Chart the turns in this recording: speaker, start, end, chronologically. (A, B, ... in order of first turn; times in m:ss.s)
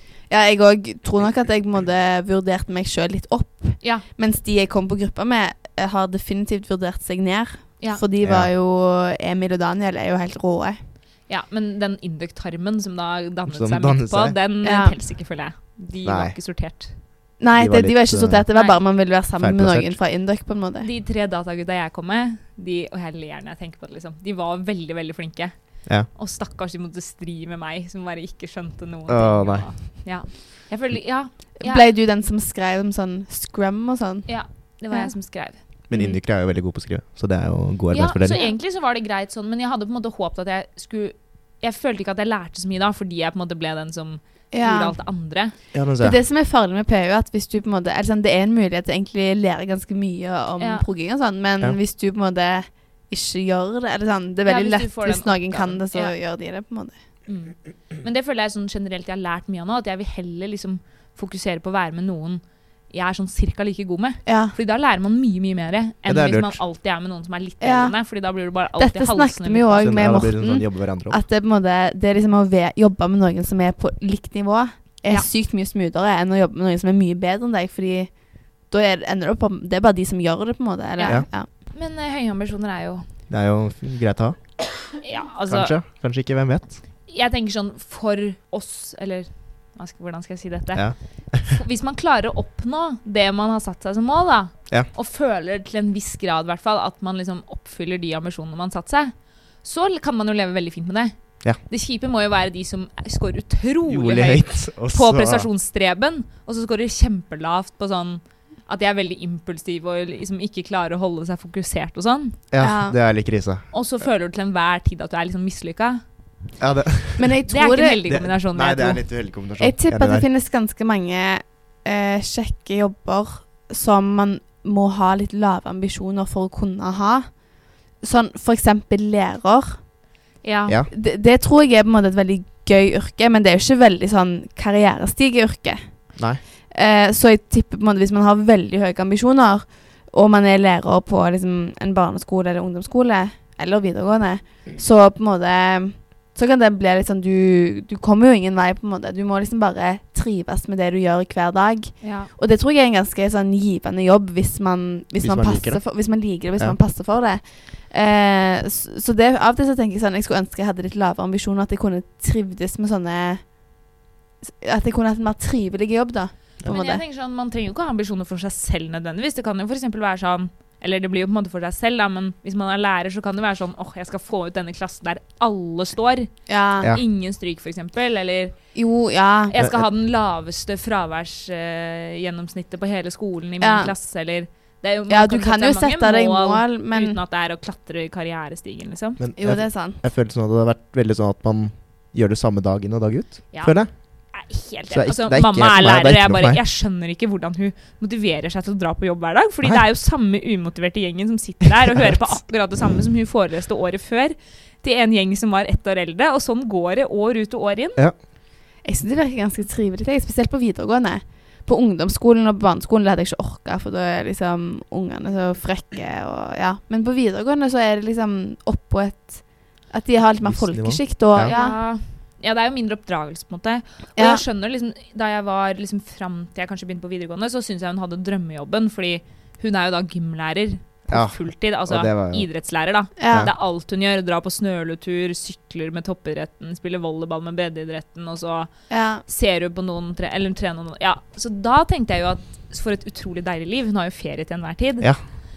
0:00.3-0:10.8 A
0:03.8-0:04.0 B
0:08.2-0:08.5 C
0:11.3-0:17.0 B
0:13.5-0:14.4 C
0:14.6-0:14.9 A
0:16.0-0:16.4 C
0:17.4-0:20.9 A
0:17.5-0:18.4 C
0:18.5-0:18.8 B
0:19.4-0:20.0 C
0:20.8-0:31.9 B
0:29.1-0:30.0 C
0:31.6-0:35.2 A
0:34.2-0:35.6 B
0:35.9-0:38.4 C
0:35.9-0:36.2 A
0:37.9-0:45.6 B
0:44.5-0:45.0 A
0:45.7-0:46.2 C
0:46.0-0:56.9 A
0:50.6-0:50.8 B
0:54.4-0:56.1 B
0:57.2-1:10.1 B
1:04.2-1:04.6 A
1:06.0-1:06.6 C
1:07.6-1:21.5 A
1:09.8-1:11.2 C
1:21.0-1:23.1 B
1:23.3-1:24.9 C
1:25.0-1:25.8 B
1:25.5-1:26.8 C
1:27.0-1:52.4 B
1:30.7-1:31.5 C
1:43.9-1:45.5 C
1:52.5-1:53.7 C
1:52.6-1:53.0 A
1:53.7-1:56.0 B
1:56.6-1:57.3 C
1:57.2-1:58.0 A
1:57.5-1:59.0 B
1:58.1-2:00.2 C
1:59.4-2:07.4 A
2:08.0-2:09.9 A
2:10.4-2:10.8 B
2:10.9-2:16.2 A
2:16.7-2:43.8 A
2:32.0-2:32.3 B
2:35.2-2:35.8 C
2:44.4-2:47.0 A
2:46.7-2:58.6 B
2:56.5-2:56.9 A
2:58.7-2:59.5 A
2:59.5-3:09.2 B
2:59.5-2:59.9 C
3:03.6-3:03.9 A
3:05.1-3:07.2 A
3:09.2-3:13.9 C
3:09.4-3:10.0 A
3:13.5-3:28.0 B
3:14.9-3:16.6 C
3:28.8-3:41.8 A
3:40.4-3:41.5 C
3:41.4-3:58.7 B
3:44.2-3:44.4 A
3:51.1-3:52.5 C
3:53.2-3:53.5 A
3:53.3-3:53.5 C
3:58.9-3:59.2 A
3:59.2-4:05.3 B